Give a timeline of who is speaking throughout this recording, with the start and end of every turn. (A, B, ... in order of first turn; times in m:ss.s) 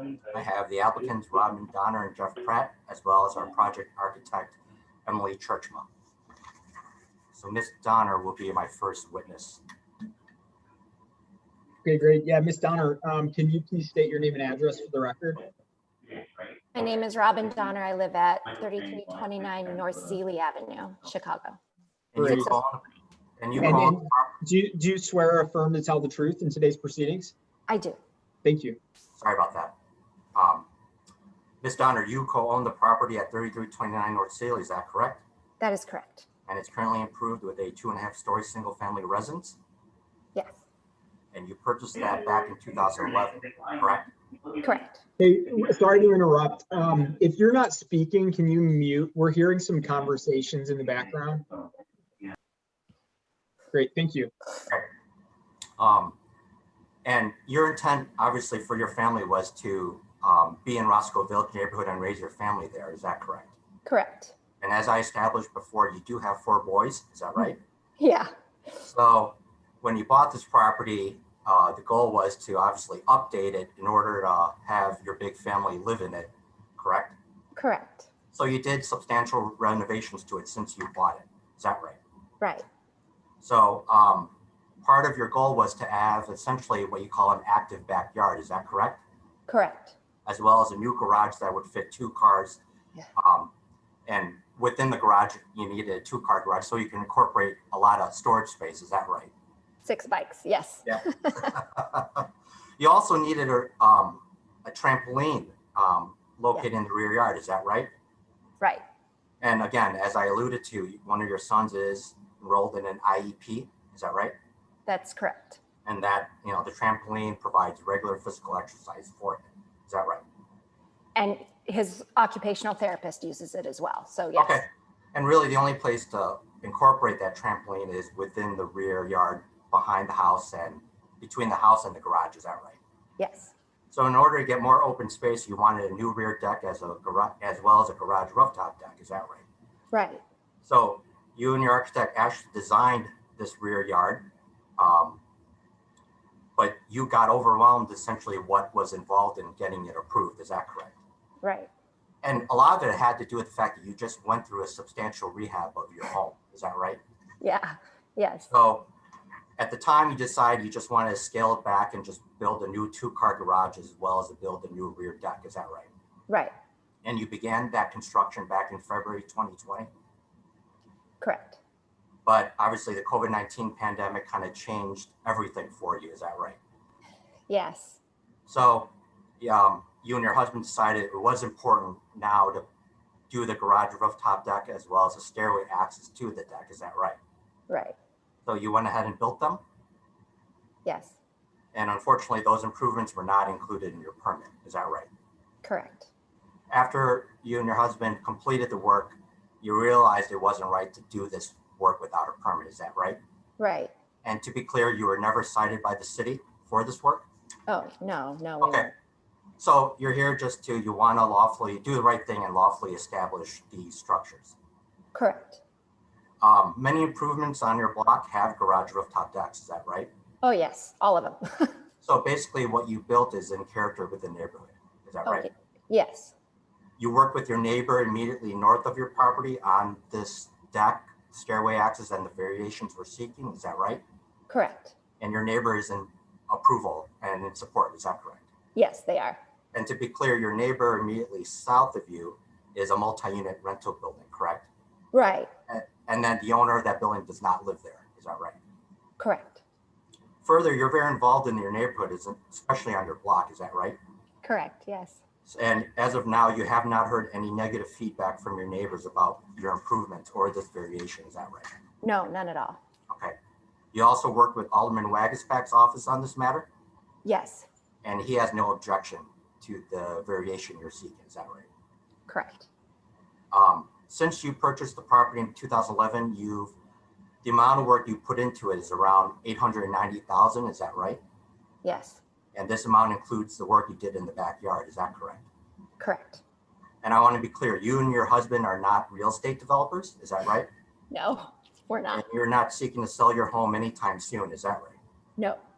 0:00.3-0:05.9 A
0:07.3-0:09.6 A
0:11.8-0:15.4 B
0:16.7-0:21.6 C
0:22.1-0:22.8 A
0:22.2-0:22.5 B
0:23.4-0:24.4 A
0:23.6-0:27.3 B
0:27.7-0:28.0 C
0:28.4-0:28.8 B
0:29.2-0:29.7 A
0:30.4-0:30.7 A
0:31.6-0:35.2 A
0:35.6-0:36.2 C
0:36.5-0:39.6 A
0:41.3-0:44.1 A
0:44.6-0:45.0 C
0:45.2-0:51.5 B
0:53.7-0:54.3 B
0:55.8-0:56.2 A
0:57.0-1:03.5 A
1:03.8-1:04.3 C
1:04.6-1:07.6 A
1:08.0-1:08.3 C
1:08.8-1:17.2 A
1:17.6-1:18.1 C
1:18.3-1:22.0 A
1:23.4-1:24.3 A
1:24.8-1:29.0 A
1:29.5-1:29.9 C
1:30.3-1:32.6 A
1:33.2-1:33.5 A
1:34.1-1:39.3 A
1:39.8-1:41.5 C
1:40.9-1:42.3 A
1:42.8-1:47.9 A
1:49.4-1:54.4 A
1:54.9-1:55.6 C
1:55.8-2:00.2 A
2:01.2-2:04.6 C
2:04.4-2:12.8 A
2:13.2-2:13.5 C
2:13.9-2:19.4 A
2:19.9-2:20.2 C
2:20.6-2:25.2 A
2:26.6-2:31.0 A
2:31.4-2:31.7 C
2:32.2-2:37.0 A
2:37.4-2:38.5 C
2:38.5-2:38.9 A
2:39.6-2:45.9 A
2:46.3-2:46.5 C
2:47.0-2:49.9 A
2:51.2-2:51.6 C
2:52.3-2:56.6 A
2:57.5-2:58.0 C
2:58.5-3:02.6 A
3:03.3-3:07.2 A
3:07.7-3:08.0 C
3:08.5-3:09.6 A
3:10.8-3:11.1 C
3:11.7-3:15.1 A
3:15.6-3:16.1 C
3:16.7-3:23.2 A
3:23.6-3:23.9 C
3:24.2-3:27.2 A
3:27.7-3:28.9 C
3:28.6-3:28.9 A
3:29.6-3:34.6 A
3:35.1-3:35.6 C
3:36.4-3:40.1 A
3:40.4-3:41.8 C
3:42.0-3:45.5 A
3:45.3-3:46.3 C
3:47.0-3:54.0 A
3:54.5-3:55.0 C
3:55.2-3:58.4 A
3:58.8-3:59.4 C
3:59.7-4:04.7 A
4:05.1-4:05.5 C
4:05.7-4:08.6 A
4:09.2-4:09.6 C
4:10.4-4:14.0 A
4:14.4-4:15.2 C
4:15.5-4:21.7 A
4:22.0-4:22.8 C
4:23.1-4:23.4 A
4:23.9-4:26.7 A
4:27.2-4:27.7 C
4:28.0-4:31.7 A
4:32.3-4:32.7 C
4:33.5-4:36.7 A
4:37.4-4:41.2 A
4:41.8-4:42.2 C
4:42.6-4:45.4 A
4:46.0-4:46.4 C
4:47.0-4:50.7 A
4:51.1-4:52.2 C
4:52.1-4:55.0 A